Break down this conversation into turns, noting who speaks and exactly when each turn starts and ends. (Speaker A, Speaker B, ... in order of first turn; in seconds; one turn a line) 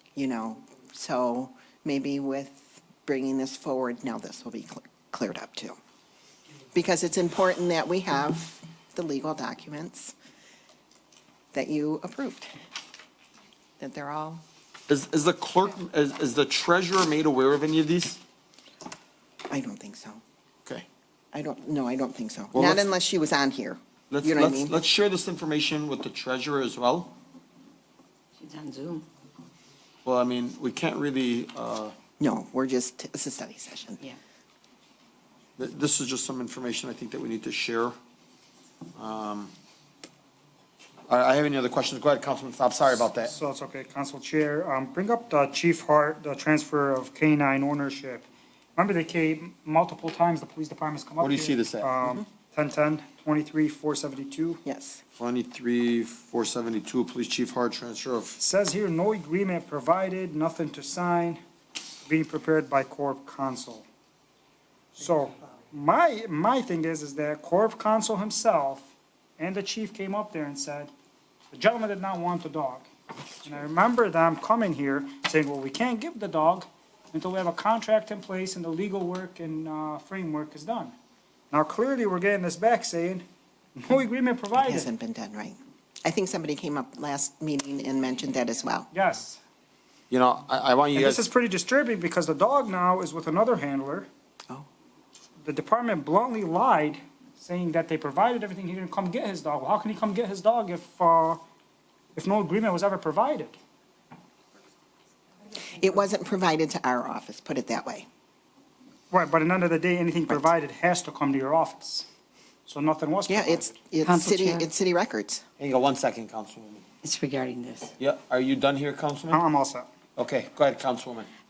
Speaker A: 0.1-5.8
Speaker A: 6.7-10.1
Speaker A: 11.5-12.5
Speaker A: 13.8-14.4
Speaker B: 14.9-18.2
Speaker A: 19.5-20.2
Speaker A: 21.3-24.8
Speaker B: 22.5-22.9
Speaker B: 24.1-27.2
Speaker C: 28.4-29.1
Speaker B: 30.1-31.9
Speaker A: 32.2-34.0
Speaker B: 35.6-38.0
Speaker B: 39.0-39.5
Speaker B: 41.1-43.3
Speaker D: 43.3-54.6
Speaker B: 51.2-51.9
Speaker A: 54.6-55.0
Speaker B: 55.2-58.4
Speaker D: 58.4-61.4
Speaker D: 62.0-63.9
Speaker D: 65.0-70.9
Speaker D: 71.5-72.9
Speaker D: 73.4-80.9
Speaker D: 81.5-83.2
Speaker D: 83.8-84.9
Speaker A: 84.6-88.9
Speaker D: 88.9-89.4
Speaker B: 90.1-91.3
Speaker D: 91.0-94.1
Speaker D: 95.4-101.4
Speaker D: 102.2-103.5
Speaker A: 105.7-108.1
Speaker D: 109.1-112.1
Speaker D: 112.7-113.8
Speaker A: 113.3-115.4
Speaker C: 114.0-114.7
Speaker B: 115.6-116.8
Speaker C: 117.0-117.9
Speaker B: 118.0-119.4
Speaker D: 119.3-119.9
Speaker B: 120.2-121.3